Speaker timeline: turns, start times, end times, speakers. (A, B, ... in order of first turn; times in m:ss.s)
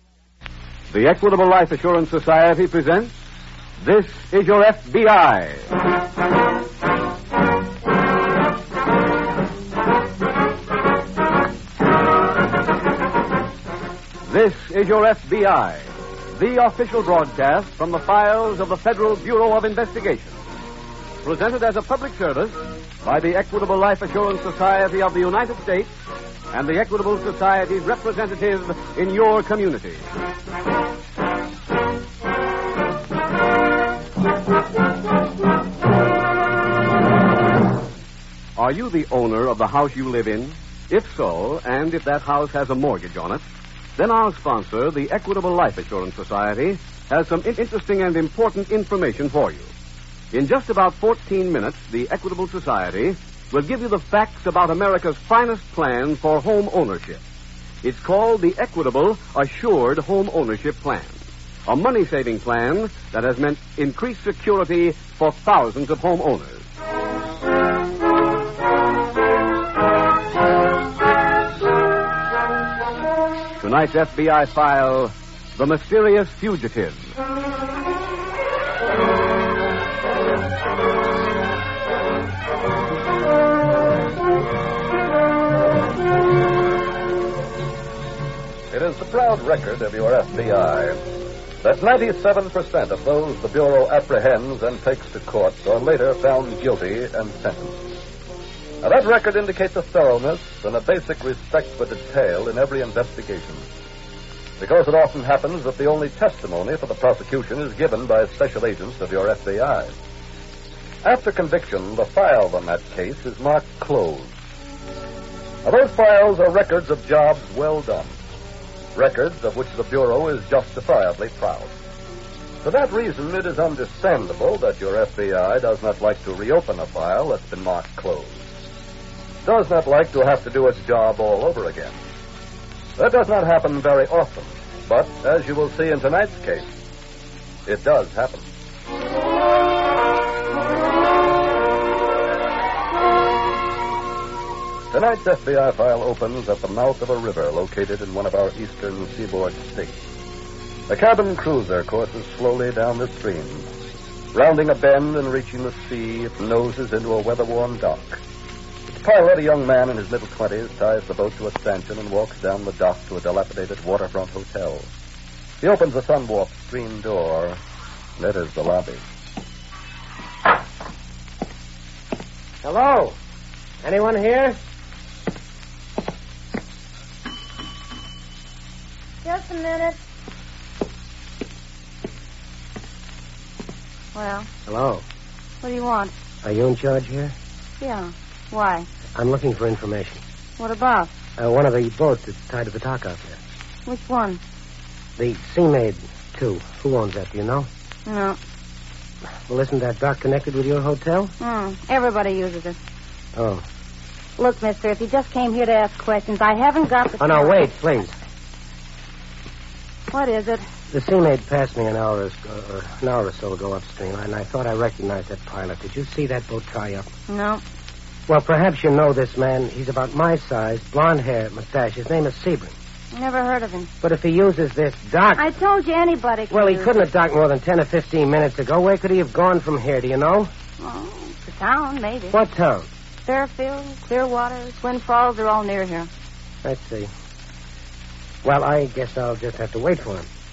0:00.9-0:03.1 A
0:03.8-0:05.7 A
0:14.2-0:20.4 A
0:21.2-0:25.9 A
0:26.5-0:30.1 A
0:38.6-0:43.4 A
0:44.0-0:49.7 A
0:50.3-0:57.2 A
0:57.8-1:01.2 A
1:01.7-1:06.6 A
1:13.6-1:17.1 A
1:28.7-1:31.0 B
1:31.6-1:37.8 B
1:38.8-1:43.6 B
1:44.6-1:49.9 B
1:51.0-1:54.4 B
1:55.6-1:58.2 B
1:58.9-2:01.7 B
2:02.6-2:08.4 B
2:09.4-2:12.0 B
2:13.0-2:16.7 B
2:17.6-2:18.5 B
2:24.9-2:30.0 B
2:30.9-2:33.7 B
2:34.3-2:38.2 B
2:38.9-2:44.9 B
2:45.6-2:47.6 B
2:48.2-2:49.0 B
2:52.6-2:53.2 C
2:53.8-2:54.6 C
2:59.2-3:00.0 D
3:04.1-3:04.5 D
3:04.7-3:05.0 C
3:05.6-3:06.1 D
3:06.4-3:07.3 C
3:07.8-3:08.9 D
3:09.1-3:10.2 C
3:10.6-3:11.1 D
3:11.4-3:13.4 C
3:13.8-3:14.4 D
3:15.2-3:17.7 C
3:18.0-3:18.4 D
3:19.5-3:21.3 C
3:21.4-3:22.8 D
3:23.3-3:23.6 C
3:24.4-3:27.6 D
3:27.2-3:28.1 C
3:30.1-3:30.6 D
3:30.9-3:37.1 C
3:37.3-3:37.6 D
3:38.3-3:42.7 C
3:43.1-3:43.9 D
3:44.0-3:45.4 C
3:45.4-3:46.9 D
3:46.5-3:50.5 C
3:50.8-3:52.4 D
3:52.3-3:52.9 C
3:53.2-3:56.1 D
3:56.6-3:57.1 C
3:58.4-4:00.3 C